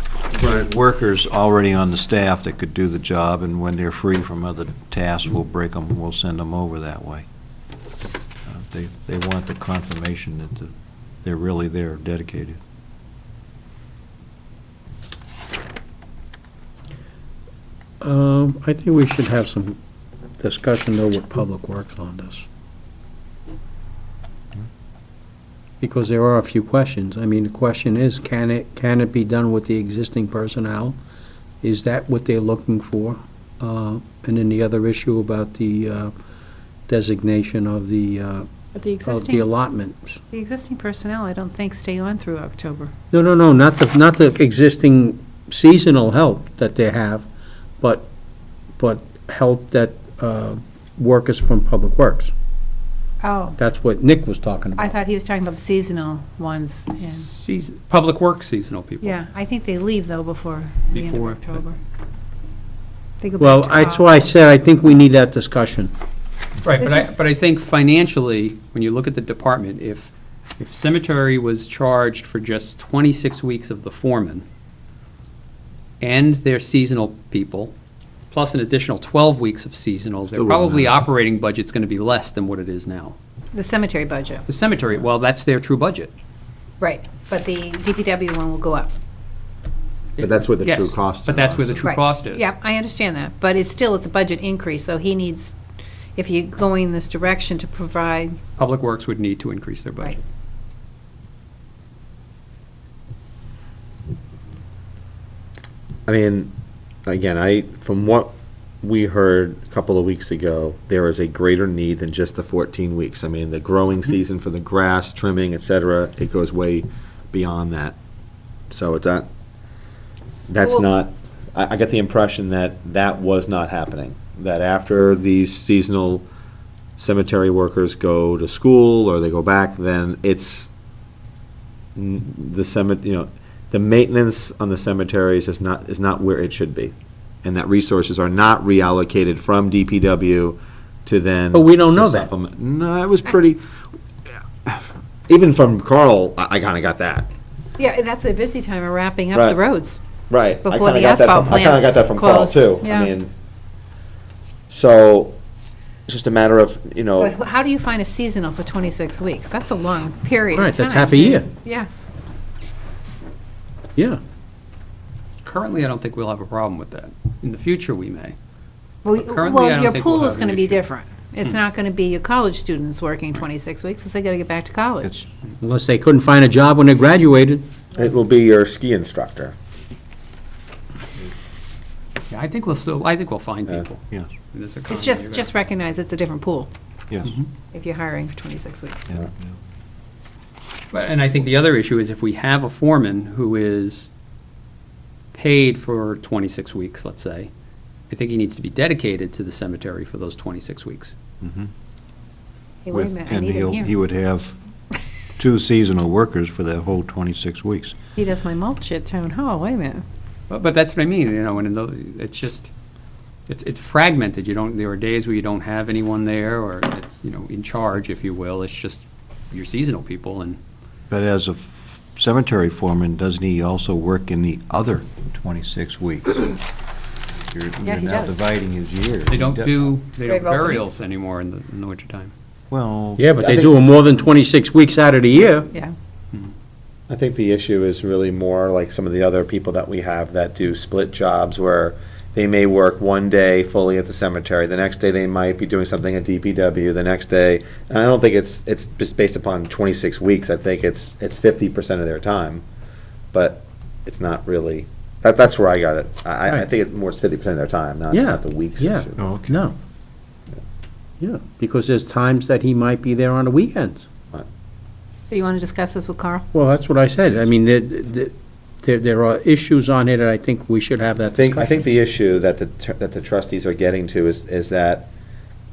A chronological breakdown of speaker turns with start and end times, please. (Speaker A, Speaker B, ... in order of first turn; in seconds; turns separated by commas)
Speaker A: 0.3-7.2, Speaker A: 8.4-10.7, Speaker A: 11.2-12.6, Speaker B: 18.0-19.8, Speaker B: 20.4-22.4, Speaker B: 25.8-31.0, Speaker B: 31.6-36.1, Speaker B: 36.9-38.5, Speaker C: 38.7-39.4, Speaker B: 39.0-40.2, Speaker C: 40.3-42.9, Speaker B: 43.1-47.3, Speaker B: 47.8-48.1, Speaker B: 48.8-52.3, Speaker C: 53.2-53.6, Speaker B: 53.6-54.9, Speaker C: 54.8-57.3, Speaker D: 57.2-59.2, Speaker C: 59.0-61.8, Speaker D: 60.9-61.6, Speaker C: 63.2-64.1, Speaker B: 63.4-65.9, Speaker D: 66.6-74.4, Speaker C: 66.8-67.2, Speaker D: 76.0-77.7, Speaker D: 78.3-83.2, Speaker A: 80.4-80.7, Speaker C: 83.5-84.4, Speaker D: 84.5-86.1, Speaker C: 86.8-88.9, Speaker D: 90.2-92.5, Speaker E: 90.2-91.8, Speaker C: 91.8-95.6, Speaker C: 96.2-98.4, Speaker D: 98.6-100.2, Speaker E: 106.1-106.5, Speaker E: 107.0-118.0, Speaker E: 118.7-119.3, Speaker E: 120.5-126.2, Speaker E: 127.0-130.7, Speaker E: 131.9-143.6, Speaker B: 141.5-142.3, Speaker E: 144.6-147.3, Speaker C: 147.8-150.0, Speaker E: 150.3-153.3, Speaker C: 150.6-153.1, Speaker E: 154.7-155.3, Speaker E: 156.1-157.3, Speaker C: 157.2-161.9, Speaker B: 160.5-161.5, Speaker D: 165.4-168.3, Speaker C: 169.0-175.2, Speaker D: 169.2-170.8, Speaker B: 175.6-177.6, Speaker E: 177.9-179.5, Speaker D: 182.3-185.5, Speaker C: 184.9-186.7, Speaker A: 187.1-187.4, Speaker C: 187.7-189.1, Speaker A: 189.1-189.6, Speaker D: 190.9-194.1, Speaker D: 195.3-197.5, Speaker D: 198.1-201.2, Speaker A: 201.4-201.7, Speaker C: 202.8-203.9, Speaker A: 202.9-204.6, Speaker A: 205.4-207.9, Speaker C: 208.2-210.0, Speaker D: 210.5-212.7, Speaker D: 213.5-220.6, Speaker A: 221.1-226.6, Speaker A: 227.5-229.8, Speaker C: 227.8-228.4, Speaker D: 229.3-232.3, Speaker C: 230.2-231.0, Speaker A: 232.7-233.2, Speaker B: 233.2-235.7, Speaker E: 233.4-233.7, Speaker E: 237.1-252.6, Speaker E: 253.3-259.2, Speaker B: 258.1-259.7, Speaker A: 259.2-259.6, Speaker B: 261.2-264.1, Speaker C: 265.3-266.5, Speaker B: 266.5-271.8, Speaker E: 271.3-275.1